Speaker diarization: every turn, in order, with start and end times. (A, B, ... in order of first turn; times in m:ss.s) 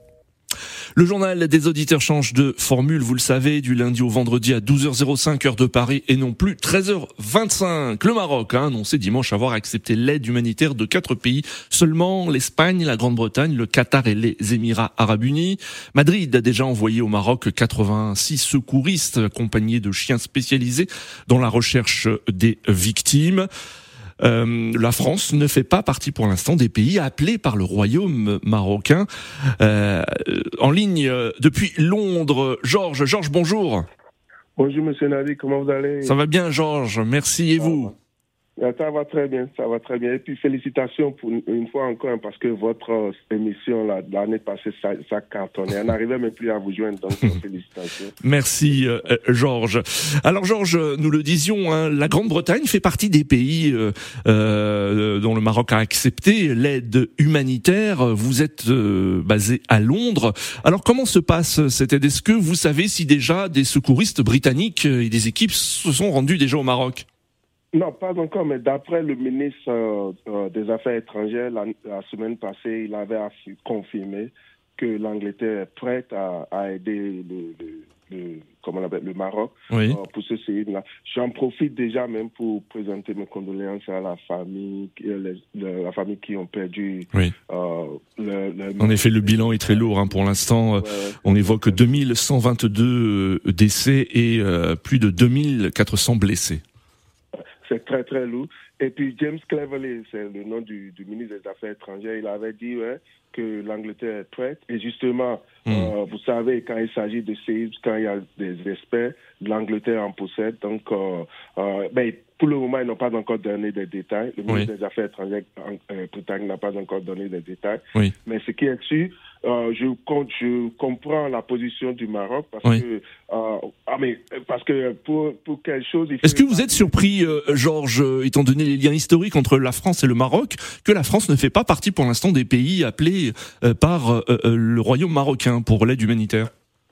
0:01.0-0:23.5 A
0:24.2-0:29.1 A
0:29.6-0:33.8 A
0:34.6-0:36.2 B
0:36.0-0:37.9 A
0:37.6-0:38.0 B
0:38.6-0:48.2 B
0:48.2-1:07.0 A
1:07.7-1:31.9 B
1:19.7-1:20.0 A
1:28.8-1:36.6 A
1:37.6-2:07.6 B
1:45.7-1:45.9 A
2:06.2-2:16.5 A